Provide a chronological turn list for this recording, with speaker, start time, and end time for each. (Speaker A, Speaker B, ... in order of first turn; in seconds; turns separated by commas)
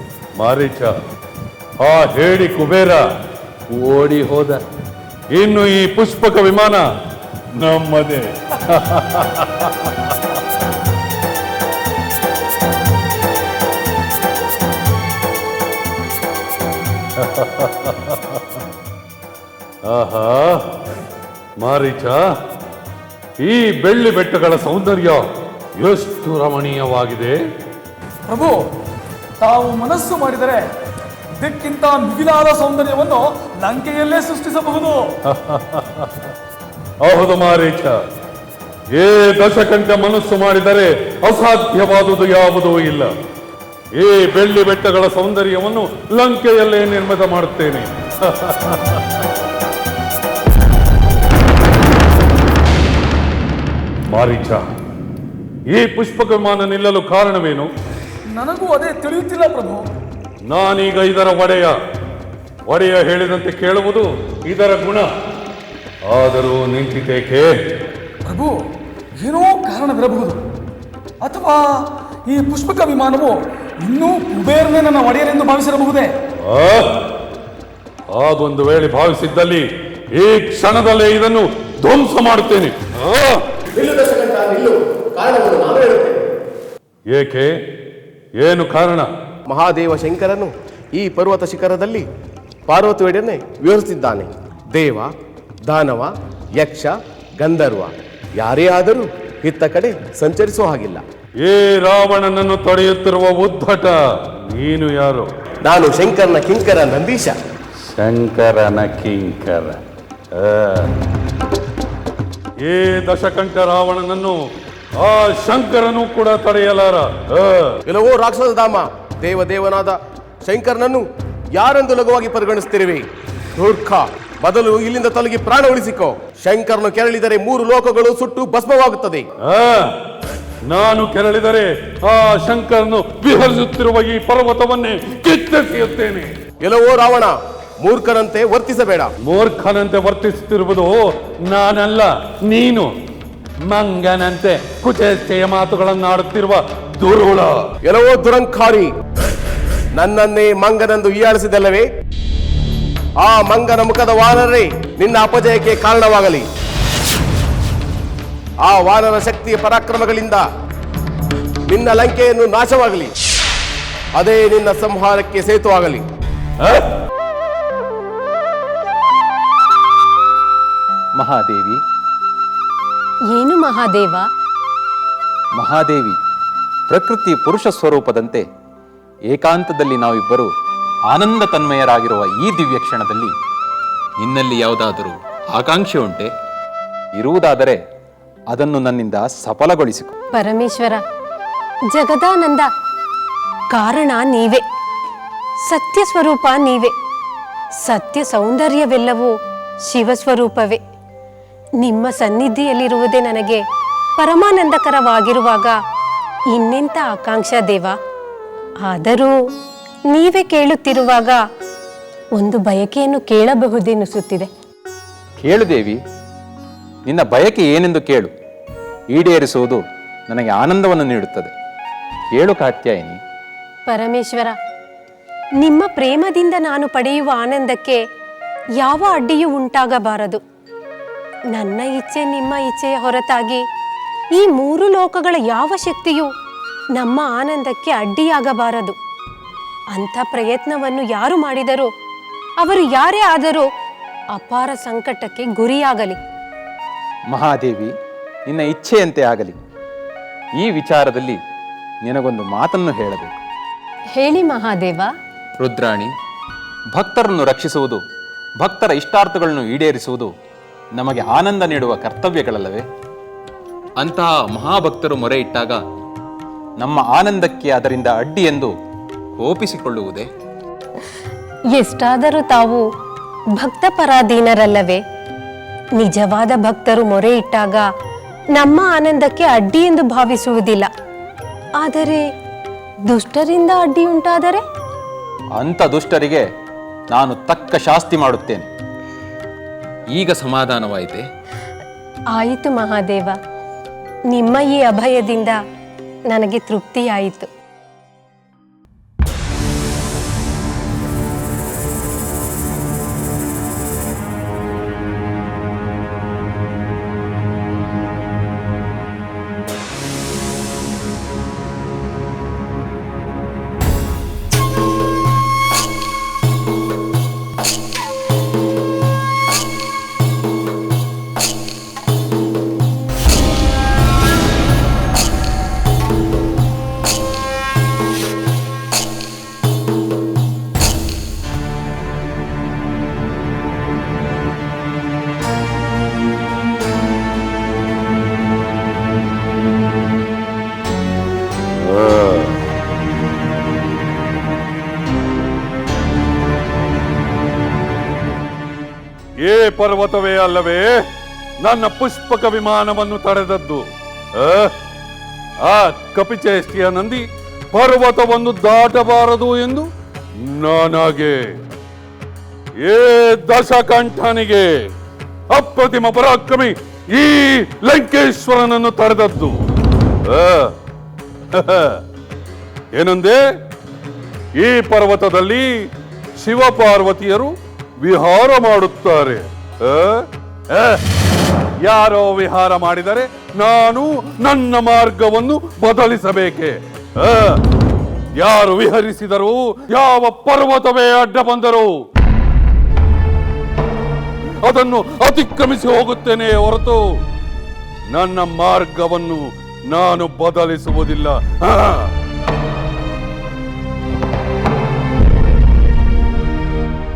Speaker A: 0.4-1.0, Speaker A: 1.8-3.0, Speaker A: 3.7-4.6, Speaker A: 5.3-6.8, Speaker A: 7.6-10.1, Speaker A: 17.2-18.6, Speaker A: 19.9-20.7, Speaker A: 21.6-22.2, Speaker A: 23.4-25.2, Speaker A: 25.8-27.4, Speaker B: 28.3-28.7, Speaker B: 29.4-30.6, Speaker B: 31.4-35.1, Speaker A: 35.3-36.1, Speaker A: 37.0-38.0, Speaker A: 39.0-43.1, Speaker A: 44.0-49.0, Speaker A: 54.1-54.6, Speaker A: 55.7-57.7, Speaker B: 58.3-59.8, Speaker A: 60.5-61.8, Speaker A: 62.7-65.1, Speaker A: 66.1-67.5, Speaker B: 68.3-68.6, Speaker B: 69.2-70.4, Speaker B: 71.2-76.1, Speaker A: 76.4-76.9, Speaker A: 78.2-79.7, Speaker A: 80.2-83.4, Speaker C: 83.7-86.2, Speaker A: 87.1-87.5, Speaker A: 88.4-89.1, Speaker C: 89.5-92.1, Speaker C: 92.7-95.1, Speaker C: 95.7-101.0, Speaker A: 101.4-104.0, Speaker A: 104.5-105.3, Speaker C: 105.7-107.4, Speaker A: 107.9-109.8, Speaker A: 110.4-110.9, Speaker A: 112.7-114.4, Speaker A: 115.0-117.8, Speaker C: 117.9-123.1, Speaker C: 123.6-129.3, Speaker A: 129.4-129.9, Speaker A: 130.7-136.3, Speaker C: 136.6-139.1, Speaker A: 139.2-142.9, Speaker A: 143.6-147.7, Speaker C: 147.8-148.9, Speaker C: 150.0-151.9, Speaker C: 153.2-156.5, Speaker C: 158.6-160.4, Speaker C: 161.7-163.1, Speaker C: 164.2-166.1, Speaker D: 171.2-171.8, Speaker E: 173.3-174.3, Speaker D: 175.6-176.2, Speaker D: 176.9-178.4, Speaker D: 179.3-180.5, Speaker D: 181.1-183.3, Speaker D: 184.2-186.3, Speaker D: 187.2-187.8, Speaker D: 188.5-190.1, Speaker E: 190.3-191.0, Speaker E: 191.9-192.7, Speaker E: 193.7-194.6, Speaker E: 195.7-196.9, Speaker E: 197.8-199.3, Speaker E: 199.9-200.8, Speaker E: 201.8-203.6, Speaker E: 204.2-205.8, Speaker E: 206.5-207.9, Speaker E: 208.8-209.4, Speaker E: 210.1-211.4, Speaker E: 212.4-214.5, Speaker D: 215.4-216.0, Speaker D: 217.1-218.3, Speaker D: 219.1-221.5, Speaker D: 222.4-223.2, Speaker E: 223.9-224.6, Speaker E: 225.6-228.0, Speaker E: 228.8-230.4, Speaker E: 231.5-233.7, Speaker E: 234.3-236.3, Speaker E: 237.0-238.9, Speaker E: 239.9-241.9, Speaker E: 242.6-243.7, Speaker E: 244.3-246.2, Speaker D: 247.3-247.9, Speaker D: 248.5-249.6, Speaker D: 250.6-251.4, Speaker D: 252.0-253.3, Speaker E: 254.2-255.1, Speaker D: 255.6-256.1, Speaker D: 256.9-258.0, Speaker D: 258.6-260.3, Speaker D: 261.0-262.9, Speaker D: 264.0-265.8, Speaker D: 266.8-268.7, Speaker D: 269.4-270.3, Speaker E: 271.8-272.9, Speaker E: 273.6-275.0, Speaker E: 276.0-277.9, Speaker E: 278.6-280.9, Speaker E: 281.8-282.2, Speaker E: 283.1-284.6, Speaker D: 285.6-286.5, Speaker D: 287.1-288.7, Speaker D: 290.1-291.2, Speaker E: 292.4-293.4, Speaker E: 294.3-295.6, Speaker E: 296.3-297.5, Speaker A: 341.8-342.5, Speaker A: 349.4-351.0, Speaker A: 351.6-353.8, Speaker A: 354.4-354.7, Speaker A: 355.6-357.2, Speaker A: 357.7-359.9, Speaker A: 360.4-361.4, Speaker A: 362.8-364.7, Speaker A: 365.5-369.6, Speaker A: 370.3-370.7, Speaker A: 371.5-372.0, Speaker A: 373.0-373.4, Speaker A: 374.6-375.7, Speaker A: 376.4-381.0, Speaker A: 381.9-387.6, Speaker A: 388.4-391.9, Speaker A: 394.6-397.0, Speaker A: 398.1-402.1